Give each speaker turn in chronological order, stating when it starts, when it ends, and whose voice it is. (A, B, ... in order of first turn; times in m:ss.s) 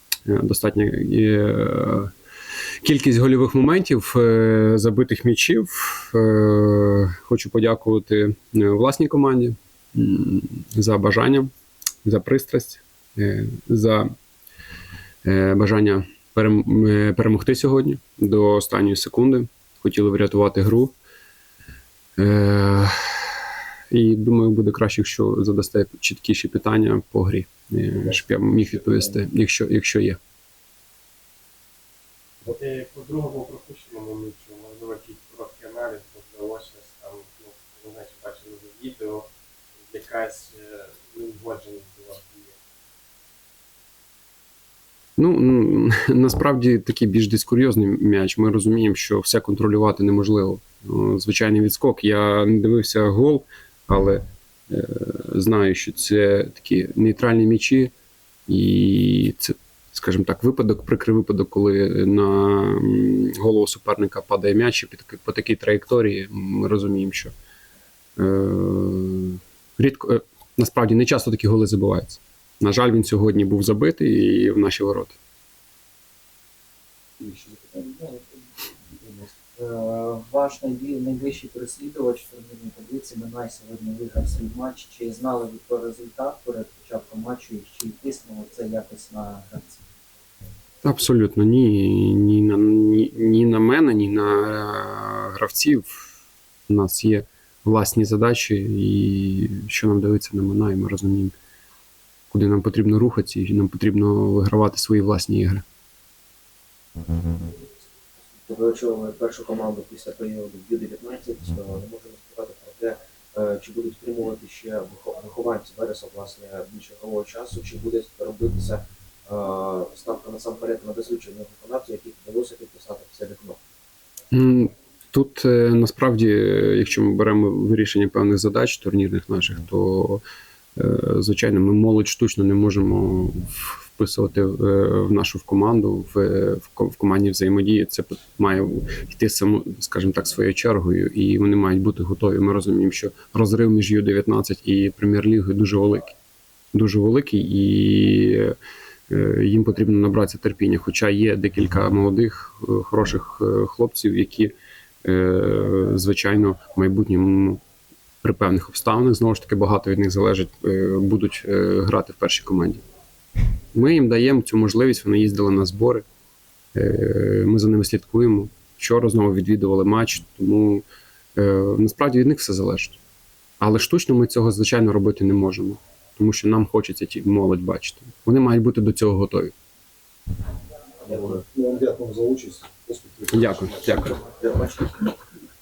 0:00.2-0:02.1 A
0:02.8-0:11.5 A
0:12.0-0:14.1 A
0:15.2-0:20.9 A
0:22.2-0:23.4 A
0:23.9-0:30.2 A
0:32.4-0:42.6 B
0:45.2-0:57.9 A
0:58.5-1:07.3 A
1:08.2-1:15.2 A
1:17.2-1:18.4 C
1:19.0-1:19.3 D
1:19.6-1:29.9 C
1:30.8-1:36.1 A
1:36.7-1:41.3 A
1:42.3-1:45.6 A
1:48.4-2:03.6 E
2:04.3-2:10.2 A
2:10.8-2:26.1 A
2:26.7-2:28.5 A
2:29.1-2:34.5 A
2:35.0-2:37.6 A
2:38.2-2:42.8 A
2:43.7-2:46.0 A
2:46.7-2:50.8 A
2:51.4-2:53.0 A
2:53.6-2:59.5 A
3:01.0-3:01.4 E
3:01.0-3:04.0 D
3:03.3-3:04.2 A
3:04.0-3:04.8 C